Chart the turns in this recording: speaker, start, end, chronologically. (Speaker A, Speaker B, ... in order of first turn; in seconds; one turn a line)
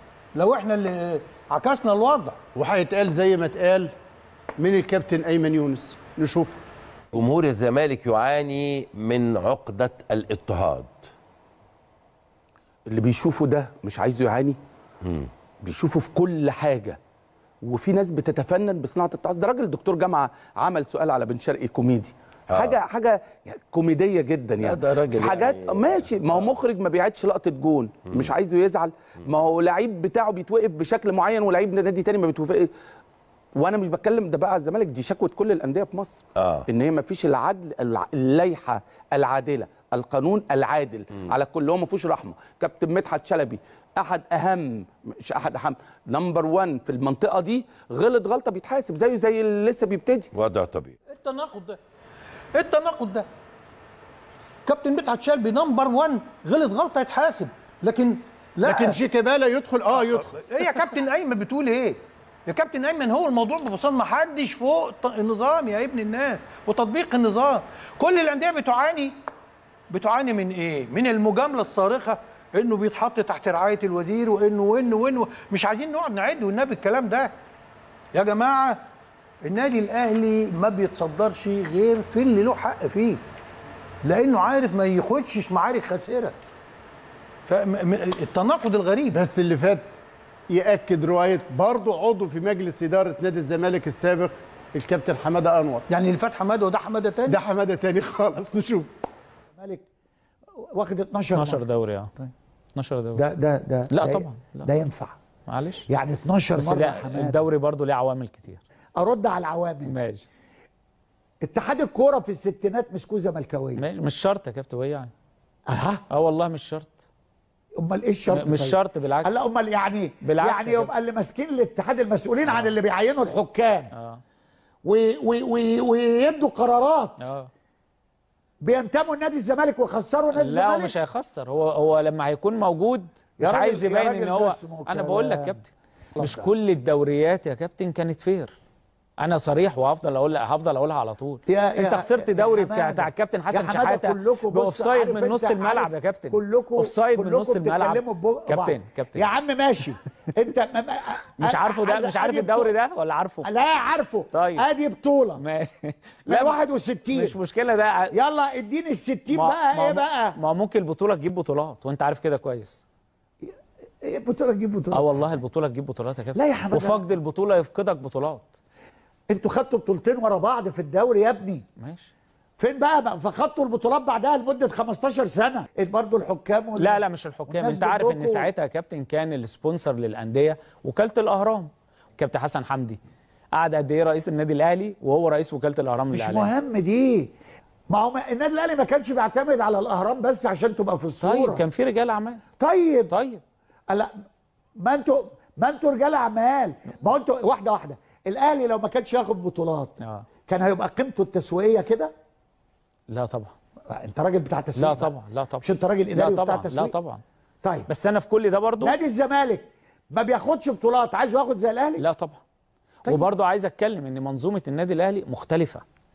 Speaker A: 0.3-2.4
Speaker B: 2.5-3.9
Speaker B: 4.6-6.6
Speaker C: 7.1-10.9
Speaker D: 12.9-14.6
Speaker D: 15.6-17.0
Speaker D: 17.6-32.7
Speaker C: 22.5-22.8
Speaker C: 24.6-25.9
Speaker D: 33.5-50.3
Speaker C: 50.3-50.9
Speaker A: 51.1-51.8
Speaker A: 52.6-53.3
Speaker A: 54.7-59.0
Speaker B: 58.6-60.8
Speaker A: 60.0-69.1
Speaker A: 69.9-77.3
Speaker A: 78.1-78.8
Speaker A: 79.4-83.2
Speaker A: 84.0-86.3
Speaker A: 87.5-89.2
Speaker B: 89.1-89.9
Speaker B: 90.5-95.9
Speaker A: 95.9-97.4
Speaker B: 97.3-98.9
Speaker E: 99.6-99.8
Speaker E: 100.7-101.6
Speaker F: 101.3-102.1
Speaker F: 102.8-103.3
Speaker E: 103.2-105.2
Speaker F: 103.9-104.8
Speaker F: 105.5-105.8
Speaker E: 105.9-107.4
Speaker F: 106.6-108.6
Speaker E: 109.0-109.9
Speaker F: 109.9-110.2
Speaker E: 111.4-113.8
Speaker F: 113.8-115.1
Speaker E: 115.7-116.0
Speaker F: 116.1-117.0
Speaker E: 117.8-123.9
Speaker F: 118.3-119.5
Speaker F: 120.2-120.9
Speaker F: 122.5-122.8
Speaker F: 123.9-124.2
Speaker E: 124.8-127.2
Speaker F: 127.2-127.5
Speaker E: 128.6-130.9
Speaker F: 130.3-138.5
Speaker E: 133.4-135.6
Speaker E: 136.2-136.5
Speaker F: 139.2-149.3
Speaker E: 141.5-152.7
Speaker F: 151.4-153.5
Speaker E: 153.4-155.4
Speaker F: 154.3-154.7
Speaker F: 155.4-158.2
Speaker E: 156.3-157.3
Speaker E: 158.1-160.4
Speaker F: 159.3-162.8
Speaker E: 164.0-165.2
Speaker F: 164.9-168.6
Speaker E: 166.4-167.0
Speaker E: 169.3-171.6
Speaker F: 171.8-172.1
Speaker E: 172.6-178.5
Speaker F: 176.8-183.0
Speaker F: 183.6-186.5
Speaker E: 186.1-187.3
Speaker E: 187.9-191.6
Speaker F: 191.2-192.4
Speaker E: 192.6-193.1
Speaker F: 193.1-193.4
Speaker E: 193.9-194.1
Speaker E: 194.8-199.9
Speaker F: 200.0-200.3
Speaker E: 200.5-202.1
Speaker F: 203.1-203.5
Speaker E: 203.9-206.9
Speaker F: 204.8-207.2
Speaker E: 207.6-207.9
Speaker F: 207.9-209.0
Speaker E: 208.8-212.0
Speaker F: 212.0-212.4
Speaker F: 213.1-215.8